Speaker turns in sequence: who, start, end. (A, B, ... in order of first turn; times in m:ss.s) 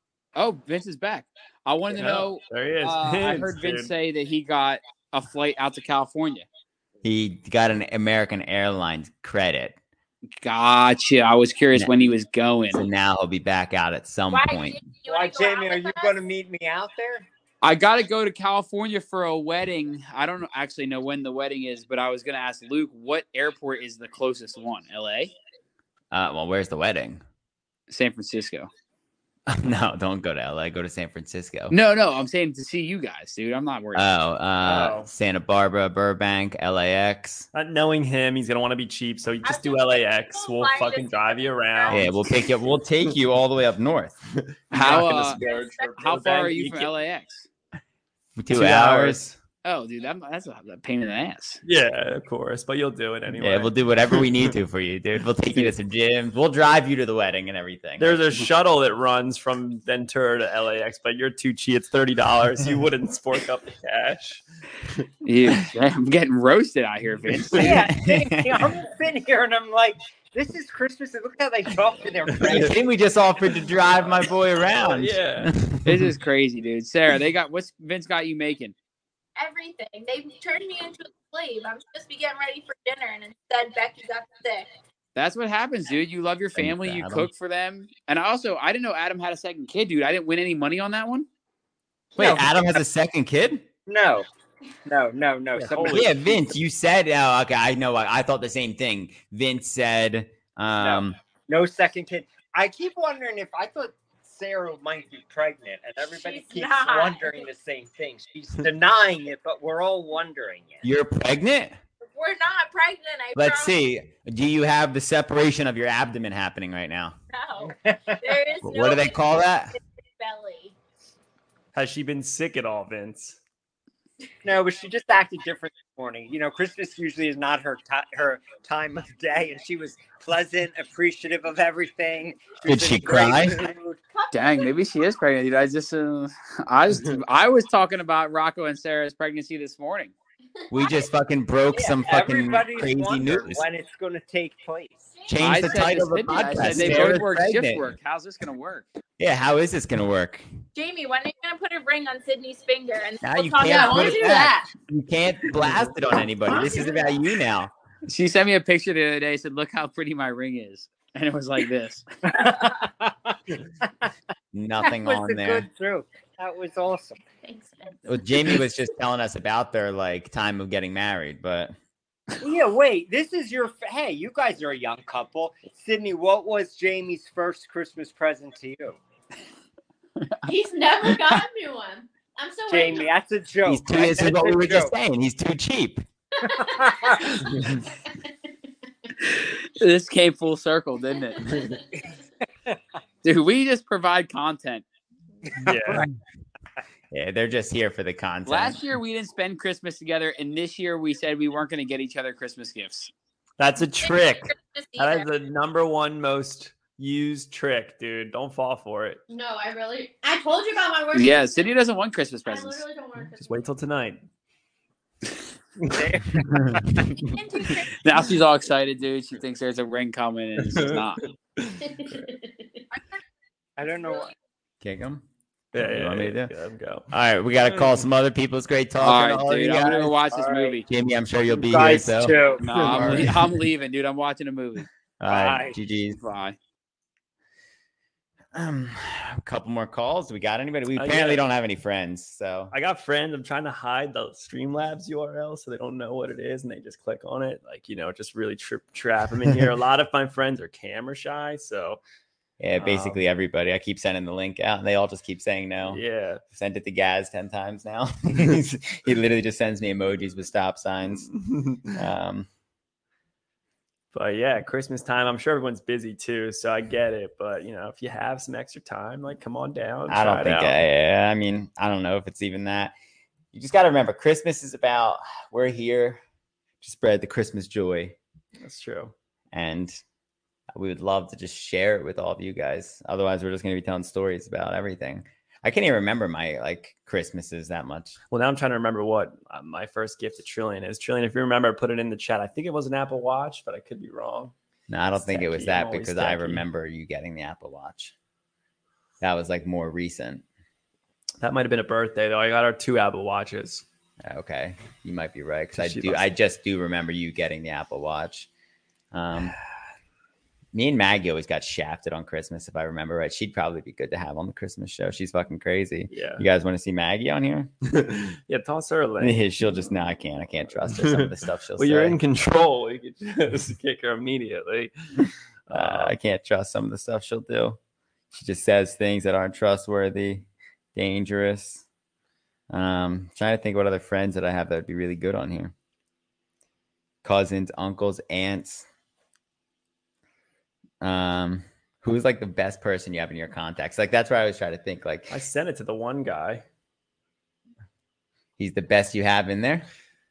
0:00.4-0:06.4 A
0:01.9-0:03.9 B
0:07.0-0:09.8 C
0:10.4-0:12.8 A
0:11.7-0:12.1 C
0:12.7-0:14.8 C
0:14.3-0:16.2 D
0:15.0-0:17.3 E
0:17.6-0:25.3 A
0:26.1-0:27.2 C
0:27.9-0:28.7 A
0:29.5-0:31.7 C
0:31.7-0:34.1 A
0:33.9-0:37.5 C
0:34.6-0:35.1 B
0:37.5-0:42.2 B
0:39.4-0:42.7 D
0:41.9-0:44.2 C
0:44.4-0:46.9 B
0:44.7-0:45.4 A
0:45.3-0:45.9 D
0:46.0-0:47.5 A
0:48.4-0:49.3 C
0:48.5-0:49.4 B
0:49.6-0:51.6 A
0:51.6-0:54.5 B
0:53.4-0:58.2 C
0:58.0-1:04.4 B
1:05.2-1:07.6 A
1:07.2-1:07.7 B
1:07.6-1:12.8 E
1:07.6-1:08.7 C
1:12.3-1:12.7 B
1:12.4-1:16.1 C
1:14.0-1:15.5 B
1:15.8-1:18.7 A
1:19.4-1:24.7 D
1:25.2-1:31.3 A
1:26.6-1:27.3 C
1:32.2-1:32.8 E
1:32.2-1:33.6 C
1:33.9-1:34.3 E
1:34.8-1:36.2 E
1:35.6-1:36.0 B
1:35.8-1:41.2 C
1:40.8-1:50.8 E
1:46.0-1:47.5 D
1:50.8-1:51.8 C
1:52.0-1:53.8 D
1:53.3-1:57.2 C
1:57.3-2:00.7 D
1:57.8-1:58.2 E
1:58.6-1:59.7 C
2:01.7-2:03.4 B
2:04.4-2:14.0 E
2:12.6-2:13.6 C
2:14.1-2:14.7 D
2:14.3-2:20.1 A
2:20.7-2:23.6 C
2:21.7-2:25.1 E
2:25.3-2:27.9 C
2:25.4-2:28.9 A
2:29.2-2:30.4 C
2:30.7-2:34.6 D
2:33.2-2:37.7 C
2:33.7-2:34.5 F
2:36.5-2:37.0 F
2:38.1-2:42.0 A
2:42.2-2:44.1 E
2:44.5-2:45.7 C
2:44.8-2:47.2 E
2:48.0-2:51.7 C
2:52.4-2:59.0 E
3:00.4-3:03.1 F
3:02.7-3:04.9 E
3:03.6-3:06.0 C
3:06.5-3:07.2 F
3:06.6-3:07.3 E
3:09.3-3:11.6 A
3:11.5-3:11.8 B
3:13.2-3:14.8 A
3:15.6-3:16.0 B
3:15.6-3:16.1 C
3:17.1-3:18.8 C
3:18.4-3:23.1 A
3:23.6-3:29.2 B
3:24.0-3:25.3 D
3:29.3-3:31.7 F
3:31.1-3:32.8 A
3:32.5-3:33.6 F
3:33.4-3:34.2 B
3:35.9-3:37.1 E
3:37.2-3:38.0 D
3:38.0-3:41.2 A
3:40.6-3:42.2 B
3:43.8-3:44.3 E
3:44.8-3:45.2 C
3:45.7-3:47.1 B
3:45.8-3:46.5 C
3:47.1-3:50.2 C
3:47.7-3:48.0 B
3:49.0-3:50.8 A
3:50.3-3:50.8 E
3:50.8-3:53.4 C
3:51.5-3:52.6 E
3:52.6-3:54.9 A
3:52.9-3:53.3 B
3:55.2-3:56.2 C
3:55.3-3:55.8 E
3:56.2-3:56.6 A
3:58.5-4:02.7 C
4:00.9-4:01.4 B
4:02.7-4:12.0 B
4:12.6-4:21.3 C
4:12.8-4:13.2 B
4:15.8-4:16.4 B
4:21.2-4:22.0 B
4:21.9-4:22.5 C
4:24.1-4:30.8 B
4:30.1-4:32.9 C
4:33.5-4:36.2 C
4:36.8-4:38.2 C
4:38.6-4:39.1 B
4:39.5-4:40.0 C
4:40.7-4:48.2 C
4:48.3-4:54.5 B
4:54.9-4:58.1 C
4:55.2-4:56.6 B
4:59.2-5:00.4 C
5:01.4-5:03.8 B
5:04.2-5:08.5 C
5:05.7-5:06.3 B
5:09.1-5:09.6 C
5:10.7-5:17.7 C
5:16.1-5:16.4 B
5:17.9-5:19.4 B
5:19.2-5:22.2 C
5:20.9-5:24.9 B
5:25.7-5:26.1 B
5:25.7-5:27.8 C
5:28.3-5:31.8 C
5:32.7-5:35.7 C
5:37.2-5:38.8 C
5:41.0-5:45.4 C
5:45.3-5:46.6 B
5:48.6-5:49.8 C